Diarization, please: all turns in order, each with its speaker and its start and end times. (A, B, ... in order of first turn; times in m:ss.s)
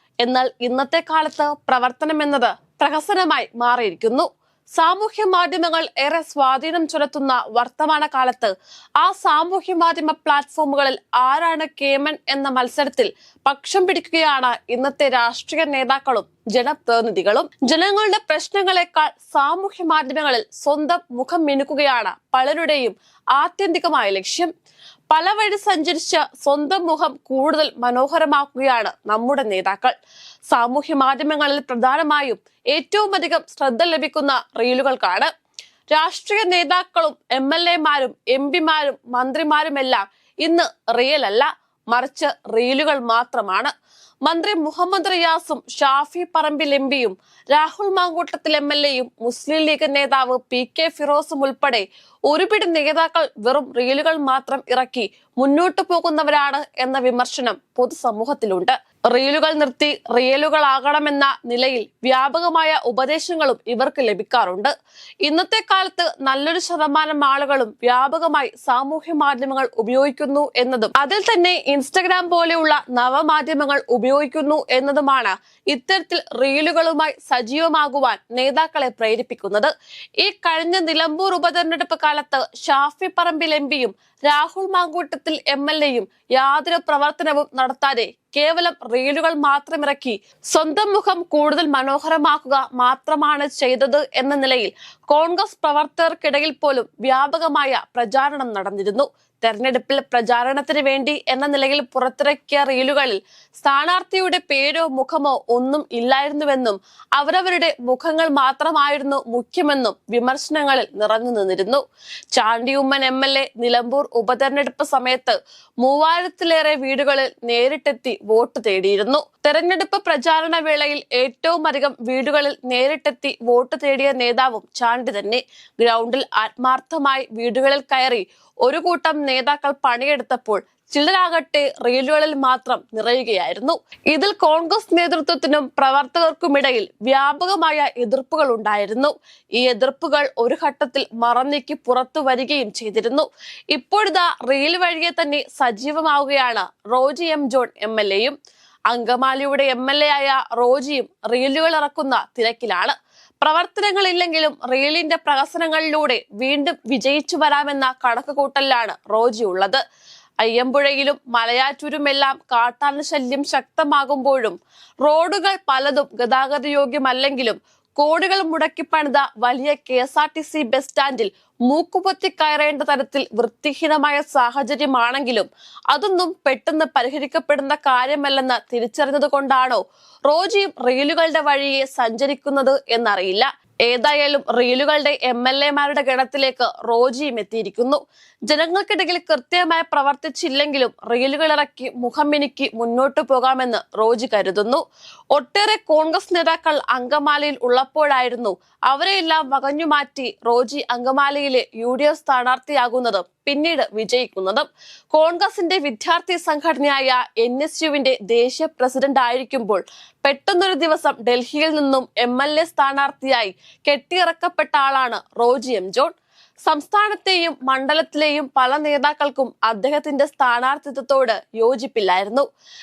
0:00.2-0:24.5 A
0:25.1-0:29.9 A
0:30.5-0:35.3 A
0:35.9-0:43.7 A
0:44.2-1:04.7 A
1:05.2-2:28.4 A
2:28.9-2:39.8 A
2:40.4-3:42.5 A